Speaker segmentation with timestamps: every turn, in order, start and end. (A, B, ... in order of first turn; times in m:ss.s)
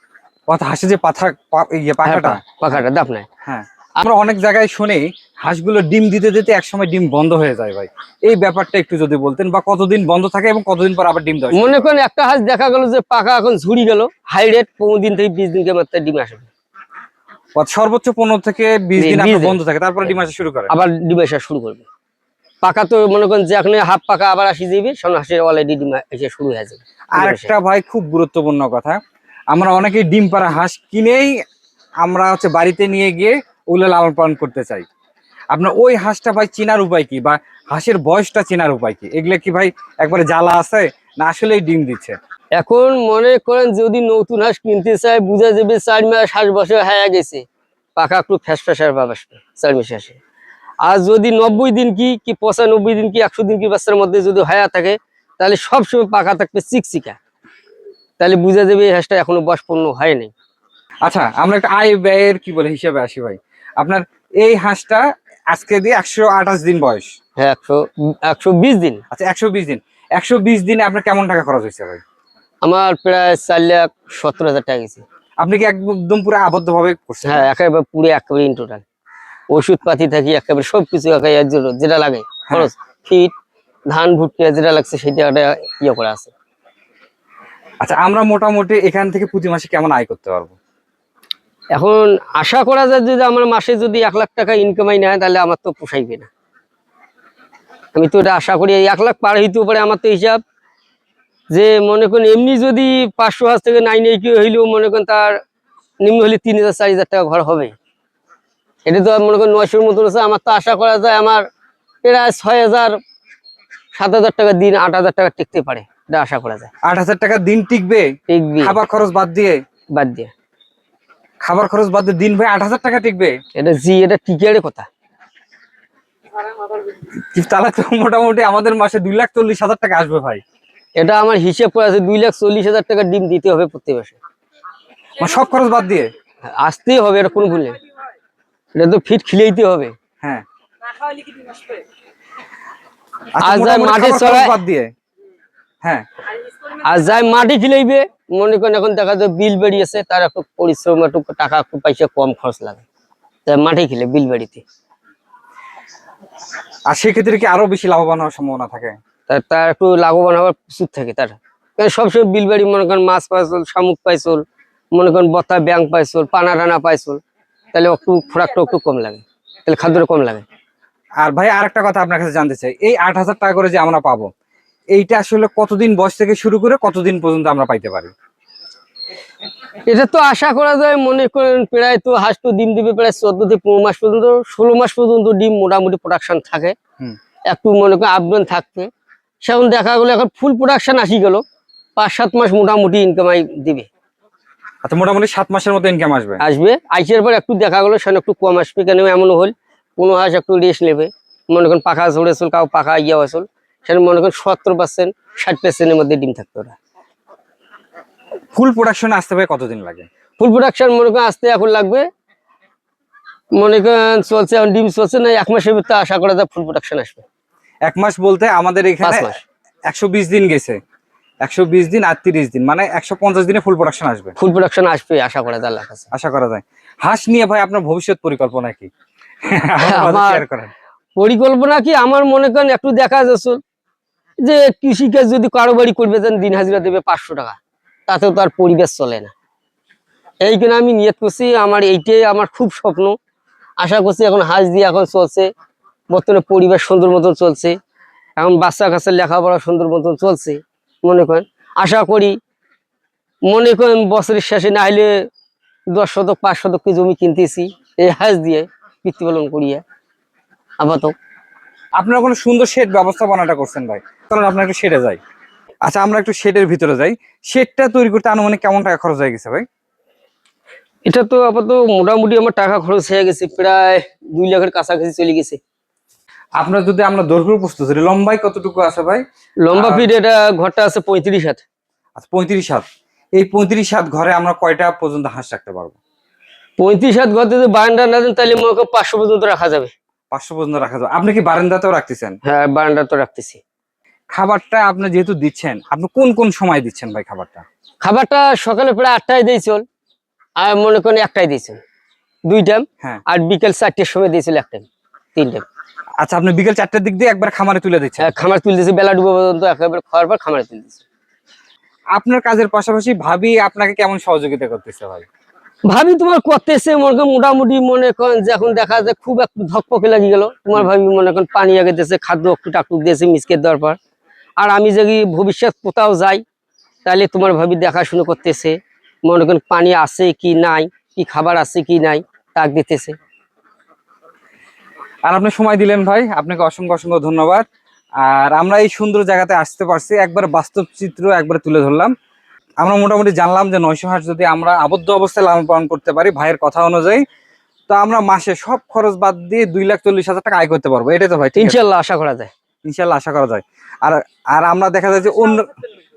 0:00.5-0:02.8 A
0:02.0-0:03.3 B
0:03.4-0:11.9 A
0:11.5-0:16.5 B
0:17.6-0:20.7 A
0:19.0-0:19.6 B
0:20.7-0:21.9 B
0:22.6-0:27.5 B
0:27.1-0:29.0 A
0:29.5-0:31.3 A
0:32.0-0:34.9 A
0:35.5-0:42.2 A
0:42.6-0:47.4 B
0:48.0-0:50.2 B
0:50.8-0:57.2 B
0:58.2-1:00.3 B
1:01.0-1:07.1 A
1:07.4-1:09.0 B
1:09.1-1:12.0 A
1:12.6-1:15.0 B
1:15.4-1:17.5 A
1:17.2-1:18.8 B
1:19.5-1:23.3 B
1:23.9-1:26.3 B
1:27.8-1:30.6 A
1:31.7-1:36.3 B
1:37.9-1:40.4 B
1:41.5-1:45.4 B
1:46.0-1:47.7 B
1:48.9-1:51.4 B
1:52.0-1:52.9 B
1:54.0-1:56.7 B
1:56.8-1:58.1 A
1:58.3-1:58.8 B
1:58.6-1:59.6 A
2:00.0-2:00.3 B
2:01.4-2:03.3 A
2:03.6-2:04.9 B
2:06.9-2:10.4 A
2:11.0-2:14.2 B
2:15.2-2:16.1 A
2:16.4-2:17.8 B
2:18.8-2:19.9 B
2:23.4-2:24.9 A
2:23.4-2:24.6 B
2:26.8-2:32.8 B
2:33.4-2:34.6 B
2:36.9-2:39.0 A
2:39.3-2:44.4 B
2:44.9-2:47.2 B
2:47.7-2:50.4 B
2:51.2-2:54.3 A
2:54.9-2:58.1 A
2:59.9-3:06.8 B
3:07.5-3:08.9 B
3:09.4-3:11.4 B
3:12.0-3:13.9 B
3:14.8-3:16.4 A
3:16.4-3:26.8 B
3:28.5-3:30.1 A
3:30.4-3:32.1 B
3:33.6-3:37.2 B
3:37.9-3:39.4 A
3:39.0-3:39.4 B
3:39.9-3:40.8 A
3:41.4-3:44.3 A
3:44.4-3:46.1 B
3:46.1-3:48.9 A
3:49.4-3:50.7 A
3:49.8-3:50.4 B
3:51.2-3:53.6 B
3:54.4-3:59.3 B
4:00.4-4:03.2 B
4:03.8-4:05.5 B
4:06.1-4:07.8 B
4:08.4-4:12.4 B
4:13.5-4:15.2 B
4:15.9-4:19.8 B
4:20.8-4:21.1 B
4:22.0-4:25.2 A
4:25.9-4:29.6 A
4:31.1-4:35.6 B
4:36.6-4:40.1 A
4:39.6-4:41.6 B
4:42.2-4:42.8 A
4:43.4-4:46.0 A
4:46.8-4:49.9 B
4:50.3-4:52.4 A
4:52.4-4:53.6 B
4:54.3-4:57.6 A
4:58.0-4:59.8 B
5:00.6-5:01.8 B
5:02.5-5:05.6 B
5:06.2-5:08.3 A
5:08.2-5:11.0 B
5:12.1-5:15.2 A
5:15.9-5:24.0 B
5:24.6-5:26.4 B
5:27.0-5:33.2 B
5:35.3-5:37.6 A
5:38.2-5:42.1 A
5:42.8-5:47.2 A
5:47.9-5:51.8 A
5:51.6-5:52.5 B
5:52.9-5:55.7 A